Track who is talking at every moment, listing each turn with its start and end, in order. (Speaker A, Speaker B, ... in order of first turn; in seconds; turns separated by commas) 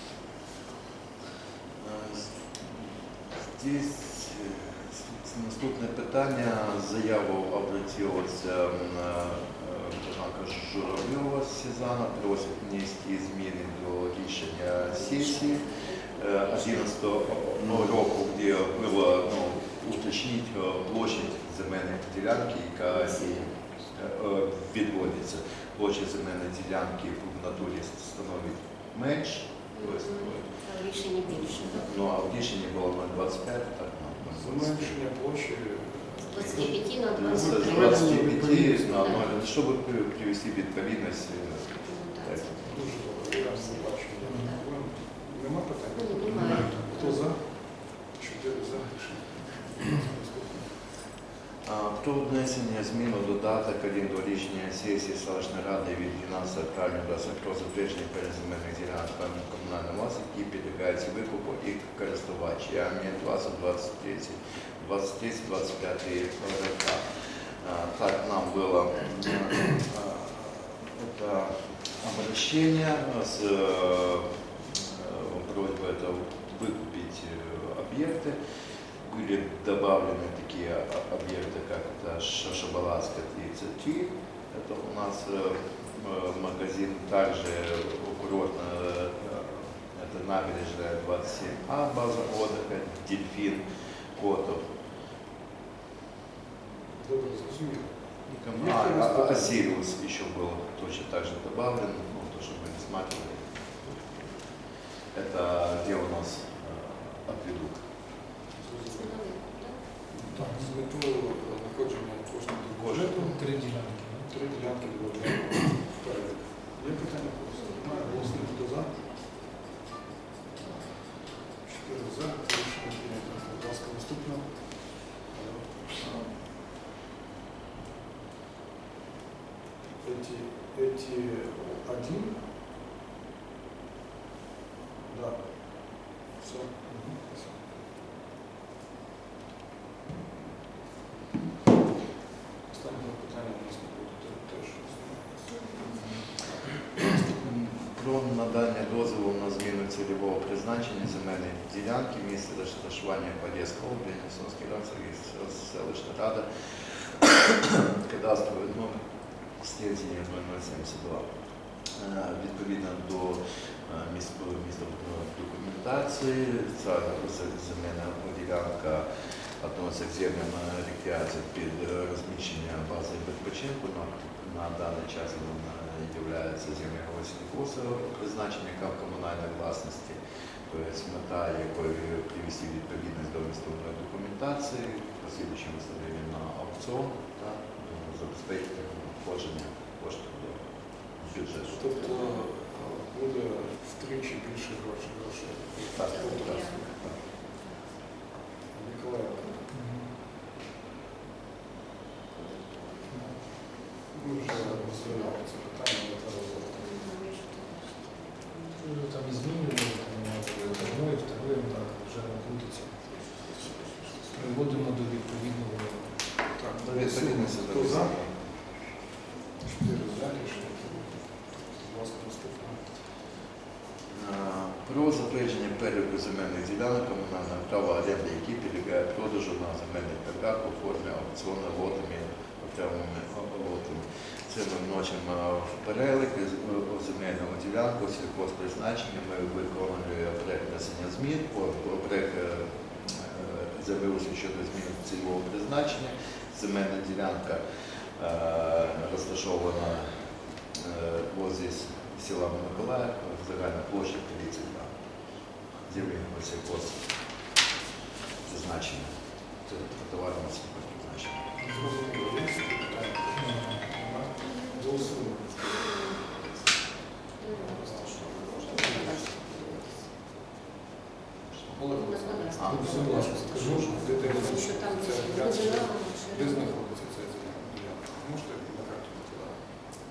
Speaker A: 1.8-30.6, Speaker B: 14.8-18.9, Speaker B: 22.9-23.8, Speaker B: 29.8-31.9, Speaker A: 31.3-35.0, Speaker C: 34.3-39.2, Speaker B: 36.3-38.0, Speaker A: 36.3-42.8, Speaker B: 41.8-44.7, Speaker C: 42.7-50.9, Speaker D: 44.2-44.5, Speaker B: 45.9-47.2, Speaker D: 46.4-46.8, Speaker A: 51.6-67.0, Speaker A: 67.6-78.4, Speaker A: 79.0-93.6, Speaker A: 94.2-94.7, Speaker C: 96.9-98.0, Speaker A: 98.3-104.2, Speaker C: 98.5-99.7, Speaker A: 105.1-107.8, Speaker C: 108.5-109.2, Speaker B: 108.9-109.8, Speaker C: 110.1-113.5, Speaker D: 110.4-110.7, Speaker A: 112.7-113.3, Speaker D: 113.2-114.3, Speaker C: 114.3-119.0, Speaker B: 117.6-118.0, Speaker C: 121.5-126.0, Speaker A: 126.0-126.3, Speaker C: 130.0-132.4, Speaker C: 135.1-137.6, Speaker C: 142.7-145.5, Speaker A: 145.8-146.2, Speaker C: 146.4-147.0, Speaker A: 147.2-159.0, Speaker A: 159.6-161.2, Speaker A: 161.9-169.1, Speaker A: 169.6-191.8, Speaker B: 191.7-192.4, Speaker C: 191.7-196.8, Speaker A: 195.9-197.2, Speaker B: 196.0-196.9, Speaker B: 197.5-198.0, Speaker C: 198.7-199.6, Speaker D: 199.7-200.1, Speaker B: 202.3-203.3, Speaker D: 203.1-203.4, Speaker C: 204.1-206.9, Speaker B: 205.1-205.4, Speaker B: 206.8-208.9, Speaker D: 208.8-212.8, Speaker B: 213.1-213.6, Speaker D: 214.3-216.4, Speaker C: 216.6-218.2, Speaker A: 216.7-218.3, Speaker C: 219.6-223.0, Speaker A: 224.1-247.6, Speaker A: 248.2-250.1, Speaker A: 250.7-254.9, Speaker A: 255.8-257.5, Speaker A: 258.4-261.5, Speaker D: 261.6-261.9, Speaker C: 261.6-265.5, Speaker D: 263.4-263.9, Speaker B: 264.3-270.1, Speaker C: 267.5-269.1, Speaker A: 271.5-271.8, Speaker C: 271.7-279.7, Speaker B: 271.9-276.8, Speaker A: 272.6-273.0, Speaker D: 272.6-274.4